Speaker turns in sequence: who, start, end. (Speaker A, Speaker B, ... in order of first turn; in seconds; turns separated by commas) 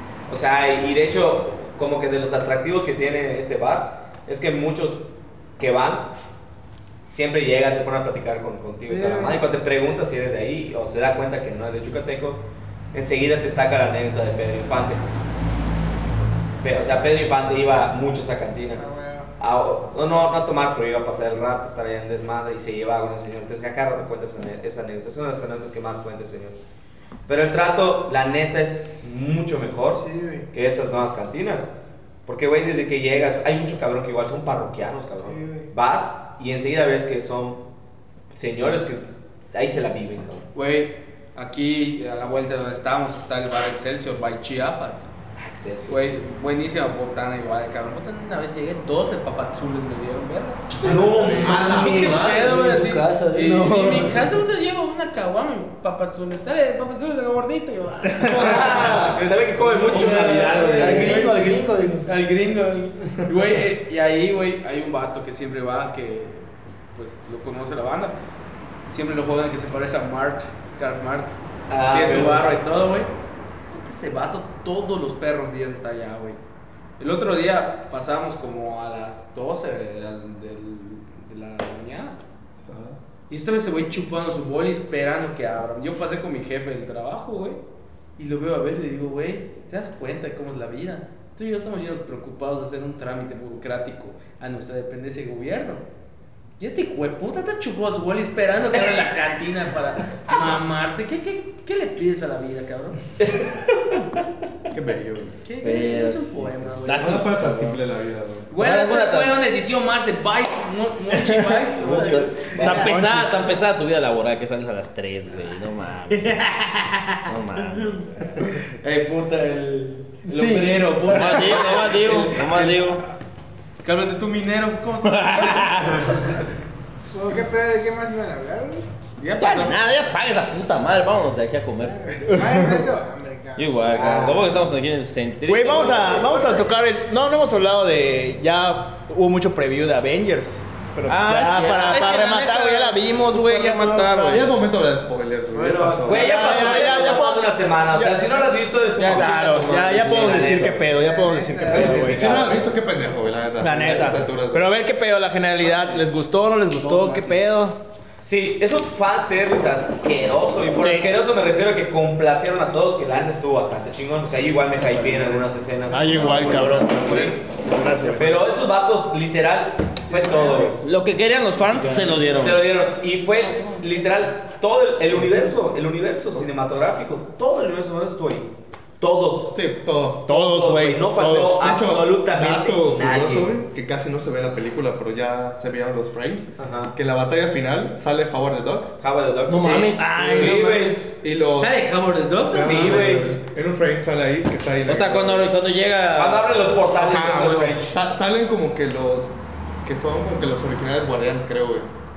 Speaker A: 0.3-6.1, Speaker A: 7.1-15.0, Speaker B: 8.9-9.5, Speaker A: 16.6-18.8, Speaker B: 18.8-19.3, Speaker A: 19.4-26.6, Speaker A: 27.3-31.7, Speaker B: 30.0-30.5, Speaker A: 32.2-37.6, Speaker B: 35.2-35.7, Speaker A: 38.3-40.5, Speaker C: 40.5-45.1, Speaker A: 45.3-46.0, Speaker C: 45.9-61.5, Speaker A: 50.8-52.3, Speaker D: 50.8-54.2, Speaker E: 50.9-52.3, Speaker A: 58.3-61.2, Speaker E: 59.9-61.5, Speaker D: 59.9-62.1, Speaker C: 62.0-68.2, Speaker C: 68.9-73.1, Speaker A: 71.7-72.4, Speaker C: 73.7-76.4, Speaker C: 77.0-82.2, Speaker E: 82.7-83.0, Speaker C: 83.3-87.6, Speaker C: 88.2-95.8, Speaker C: 96.6-103.0, Speaker A: 103.2-103.7, Speaker E: 104.7-105.4, Speaker C: 105.4-107.2, Speaker F: 105.6-107.8, Speaker E: 106.9-108.5, Speaker C: 108.5-113.0, Speaker F: 108.6-109.4, Speaker F: 111.2-116.5, Speaker A: 112.0-112.8, Speaker G: 112.6-113.5, Speaker F: 117.2-118.5, Speaker C: 118.8-123.0, Speaker F: 121.1-123.0, Speaker C: 123.8-126.2, Speaker F: 125.0-126.3, Speaker B: 127.1-128.8, Speaker C: 129.2-129.8, Speaker F: 129.4-132.5, Speaker B: 131.9-133.8, Speaker G: 132.3-132.8, Speaker F: 133.6-136.6, Speaker A: 133.9-134.6, Speaker G: 135.4-144.6, Speaker F: 141.1-144.5, Speaker E: 144.3-146.4, Speaker A: 145.6-150.8, Speaker D: 145.9-147.2, Speaker G: 146.1-152.6, Speaker F: 149.0-150.8, Speaker B: 151.0-152.1, Speaker A: 151.7-152.6, Speaker E: 152.0-154.7, Speaker G: 153.6-157.8, Speaker A: 158.2-167.4, Speaker F: 160.8-161.1, Speaker G: 165.9-168.4, Speaker E: 166.2-167.4, Speaker A: 168.1-170.8, Speaker F: 170.8-172.7, Speaker G: 171.7-172.3, Speaker A: 172.2-179.6, Speaker E: 179.5-180.4, Speaker G: 180.2-181.7, Speaker A: 180.3-183.5, Speaker E: 181.5-188.9, Speaker A: 186.6-186.9, Speaker A: 189.0-191.0, Speaker F: 189.5-190.7, Speaker E: 189.7-190.5, Speaker G: 189.7-191.1, Speaker E: 191.2-191.9, Speaker C: 191.5-193.2, Speaker E: 192.4-195.5, Speaker A: 192.5-193.3, Speaker F: 194.8-197.8, Speaker A: 196.1-198.0, Speaker E: 197.9-199.3, Speaker E: 199.8-201.9